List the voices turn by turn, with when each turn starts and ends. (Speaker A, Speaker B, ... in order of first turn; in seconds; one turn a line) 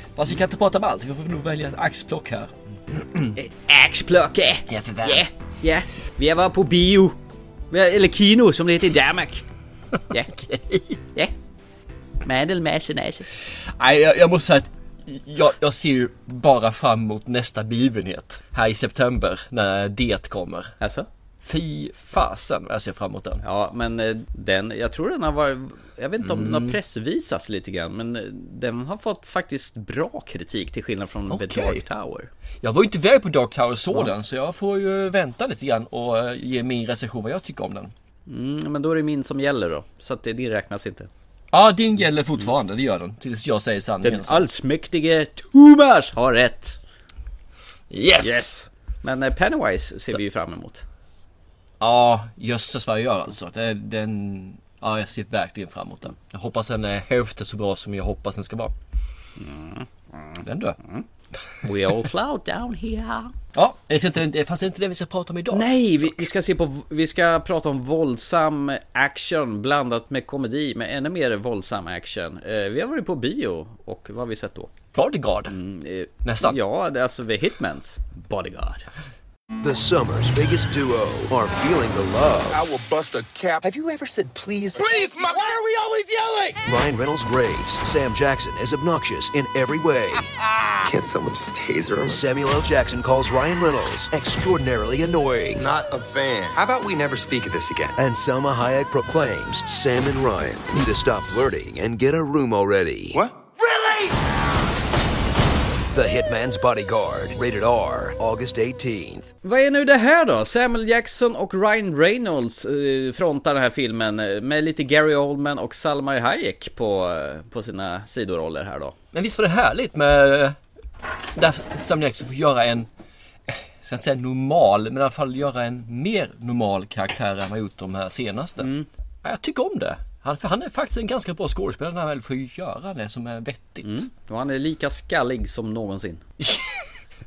Speaker A: 0.1-3.3
Speaker B: 3.4-7.2
Speaker A: 4.7-5.3
Speaker B: 7.7-9.4
Speaker B: 10.1-10.4
Speaker A: 10.5-11.0
Speaker B: 12.2-13.3
Speaker A: 13.8-20.8
Speaker B: 20.8-21.1
Speaker A: 21.4-23.4
Speaker B: 23.4-32.3
Speaker A: 26.2-26.8
Speaker A: 31.3-31.9
Speaker A: 32.6-37.9
Speaker B: 38.3-41.1
Speaker A: 41.5-44.5
Speaker B: 44.0-46.8
Speaker A: 47.9-48.6
Speaker B: 48.2-50.9
Speaker A: 51.8-58.8
Speaker B: 59.4-61.0
Speaker A: 60.4-60.8
Speaker B: 61.6-63.3
Speaker A: 63.5-66.3
Speaker B: 65.5-74.7
Speaker A: 75.0-75.6
Speaker B: 75.5-78.9
Speaker A: 76.2-76.6
Speaker C: 79.6-82.7
Speaker D: 82.5-83.6
Speaker E: 83.6-85.0
Speaker D: 85.0-85.5
Speaker C: 86.7-90.2
Speaker E: 90.8-92.1
Speaker C: 92.1-95.7
Speaker D: 95.6-96.6
Speaker E: 96.5-98.0
Speaker C: 98.0-103.2
Speaker C: 105.9-109.3
Speaker B: 109.4-119.0
Speaker A: 119.1-120.6
Speaker A: 121.3-122.9
Speaker A: 123.5-134.1
Speaker B: 128.6-128.9
Speaker B: 133.8-136.2
Speaker A: 136.4-137.0